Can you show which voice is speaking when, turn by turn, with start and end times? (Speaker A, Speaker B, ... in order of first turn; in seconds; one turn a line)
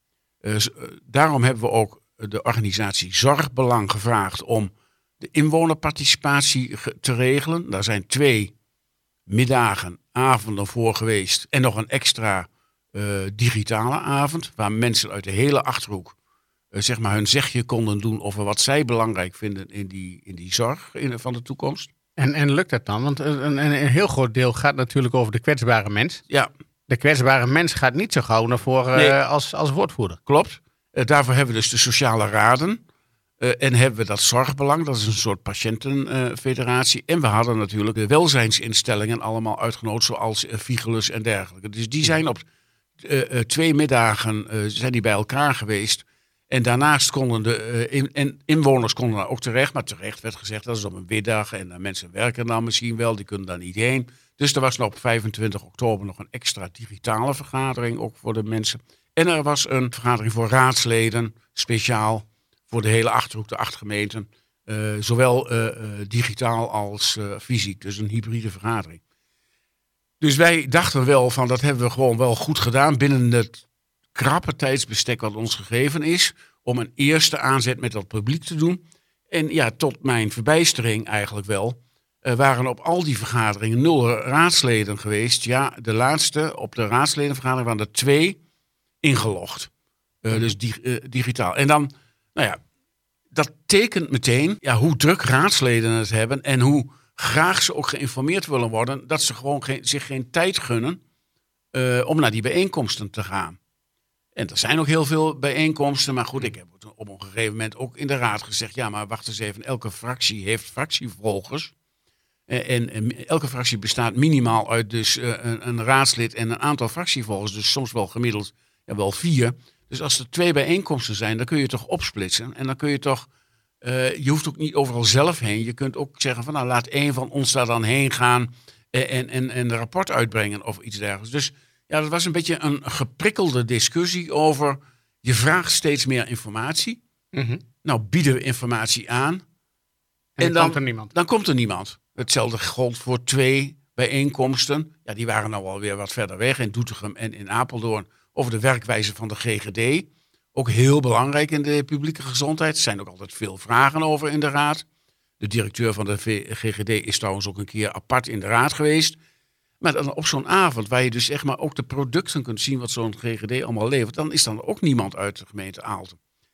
Speaker A: 0.4-8.5
Speaker A: 9.3-16.1
Speaker A: 16.7-21.9
Speaker B: 22.2-26.2
Speaker B: 26.9-30.2
Speaker A: 30.2-32.8
Speaker A: 33.4-42.4
Speaker A: 43.0-69.0
Speaker A: 70.2-88.4
Speaker A: 89.0-89.7
Speaker A: 90.2-92.6
Speaker A: 93.3-101.0
Speaker A: 101.7-103.6
Speaker A: 104.3-111.7
Speaker A: 112.5-123.3
Speaker A: 123.8-137.0
Speaker B: 137.3-137.6
Speaker A: 137.8-139.4
Speaker B: 140.4-141.1
Speaker A: 140.4-154.8
Speaker A: 155.4-159.2
Speaker A: 159.8-166.2